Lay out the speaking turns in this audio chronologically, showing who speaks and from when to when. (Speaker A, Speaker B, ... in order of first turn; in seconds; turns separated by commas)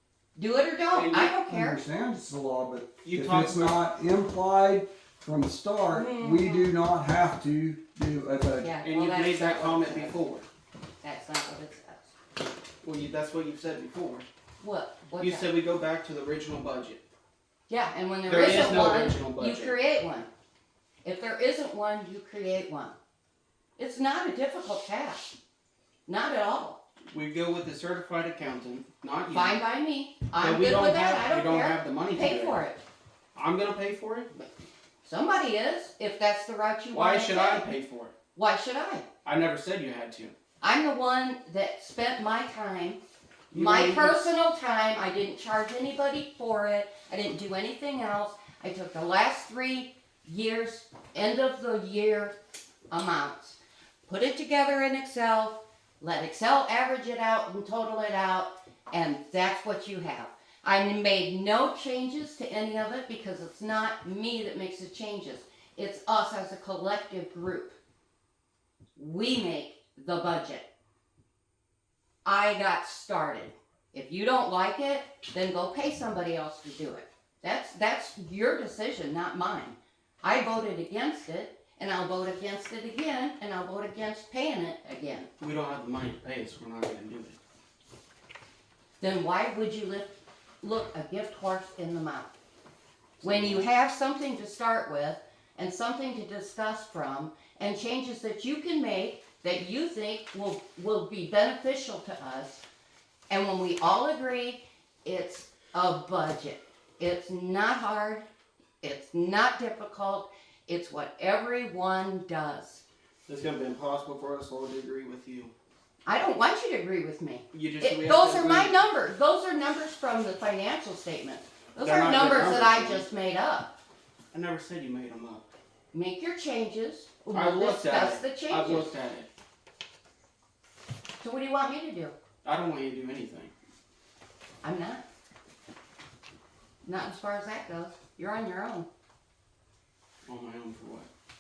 Speaker A: 0.3-1.8, Speaker B: 0.9-1.4, Speaker C: 1.5-8.7, Speaker B: 3.0-3.8, Speaker A: 5.9-6.7, Speaker A: 8.6-10.2, Speaker B: 8.8-10.4, Speaker A: 11.0-12.1, Speaker B: 12.8-14.3, Speaker A: 14.6-15.5, Speaker B: 15.2-17.0, Speaker A: 17.7-20.3, Speaker B: 18.2-19.8, Speaker A: 21.0-22.9, Speaker A: 23.8-25.3, Speaker A: 26.1-26.8, Speaker B: 27.1-29.6, Speaker A: 29.3-32.8, Speaker B: 30.4-32.6, Speaker B: 33.3-34.3, Speaker A: 35.0-37.8, Speaker B: 36.9-38.1, Speaker A: 38.3-39.0, Speaker B: 39.2-40.4, Speaker A: 40.6-43.0, Speaker B: 43.5-44.2, Speaker A: 43.5-52.3, Speaker A: 52.9-67.8, Speaker A: 69.0-70.7, Speaker A: 72.2-85.3, Speaker B: 85.4-87.4, Speaker A: 89.0-92.3, Speaker B: 93.2-93.6, Speaker A: 93.2-102.6, Speaker A: 103.3-108.2, Speaker A: 108.8-112.8, Speaker B: 113.3-115.5, Speaker A: 116.0-123.7, Speaker B: 117.5-118.8, Speaker B: 121.8-123.1, Speaker B: 124.3-125.5, Speaker A: 125.9-128.9, Speaker B: 127.3-129.3, Speaker A: 131.2-132.1, Speaker B: 132.4-133.5, Speaker A: 134.6-135.0, Speaker A: 136.8-138.9, Speaker B: 140.2-141.1